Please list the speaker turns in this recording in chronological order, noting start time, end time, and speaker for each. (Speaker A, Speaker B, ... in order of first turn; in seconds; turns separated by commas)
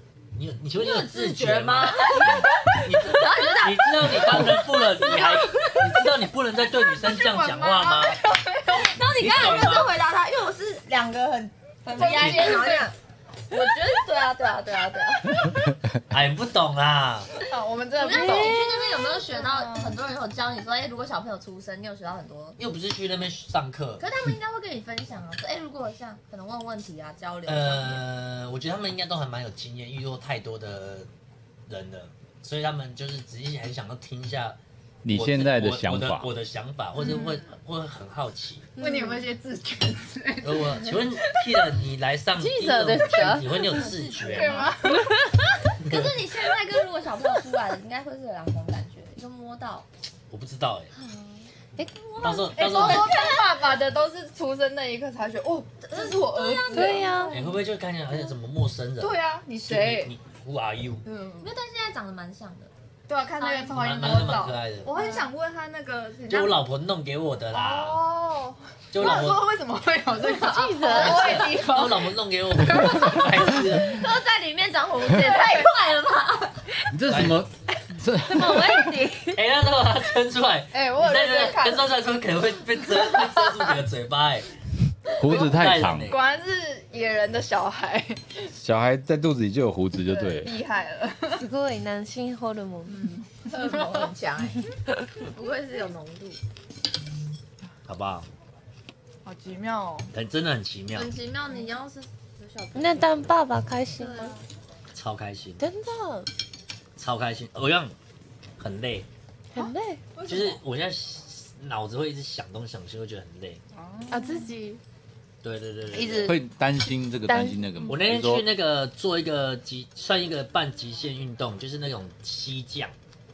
Speaker A: 0.3-2.3, Speaker B: 0.8-5.8, Speaker C: 2.1-2.8, Speaker A: 2.8-8.2, Speaker B: 7.0-8.1, Speaker C: 7.9-8.9, Speaker B: 8.7-12.9, Speaker A: 9.1-9.9, Speaker C: 11.9-12.9, Speaker A: 12.0-12.8, Speaker B: 13.5-15.5, Speaker A: 16.1-17.3, Speaker C: 17.5-20.0, Speaker B: 17.9-22.6, Speaker D: 18.1-18.5, Speaker A: 22.6-24.1, Speaker B: 24.0-28.0, Speaker A: 27.4-31.1, Speaker A: 31.7-34.6, Speaker E: 35.0-36.3, Speaker A: 35.1-38.7, Speaker C: 37.0-37.5, Speaker D: 38.8-39.2, Speaker C: 38.8-41.7, Speaker A: 40.4-44.7, Speaker B: 42.4-44.8, Speaker D: 42.6-43.4, Speaker C: 44.2-45.3, Speaker A: 45.8-46.1, Speaker B: 45.8-49.9, Speaker A: 50.3-50.9, Speaker B: 50.9-53.6, Speaker A: 52.2-53.1, Speaker C: 52.5-57.5, Speaker B: 55.9-57.5, Speaker D: 56.7-57.3, Speaker A: 57.3-61.0, Speaker C: 59.0-60.1, Speaker C: 61.0-61.5, Speaker B: 61.4-62.7, Speaker C: 63.1-66.6, Speaker B: 63.4-64.3, Speaker A: 63.7-64.9, Speaker B: 65.0-65.3, Speaker A: 66.3-68.0, Speaker C: 67.5-72.1, Speaker A: 68.9-69.5, Speaker D: 70.3-71.5, Speaker B: 70.7-71.5, Speaker A: 71.0-74.0, Speaker B: 73.8-76.7, Speaker C: 75.1-75.7, Speaker E: 76.9-78.8, Speaker A: 77.1-77.4, Speaker D: 78.2-79.4, Speaker A: 79.3-84.5, Speaker C: 80.7-81.9, Speaker C: 83.0-83.3, Speaker E: 85.2-86.1, Speaker C: 85.2-85.5, Speaker A: 85.3-86.2, Speaker C: 86.1-88.5, Speaker E: 88.5-90.5, Speaker C: 90.0-91.5, Speaker D: 91.4-93.0, Speaker C: 92.8-94.1, Speaker B: 93.5-94.6, Speaker B: 95.2-96.4, Speaker A: 97.8-98.3, Speaker C: 99.2-100.1, Speaker A: 100.1-101.1, Speaker B: 100.9-103.3, Speaker D: 102.7-104.3, Speaker B: 104.0-104.4, Speaker A: 104.9-105.6, Speaker D: 105.6-106.3, Speaker A: 107.0-107.9, Speaker A: 108.6-109.1, Speaker D: 109.5-110.0, Speaker C: 109.5-110.6, Speaker A: 110.2-113.6, Speaker C: 113.7-114.5, Speaker D: 114.1-114.8, Speaker A: 115.4-116.3, Speaker D: 116.0-116.2, Speaker B: 116.0-116.3, Speaker E: 116.2-118.4, Speaker D: 117.3-117.6, Speaker A: 117.9-122.9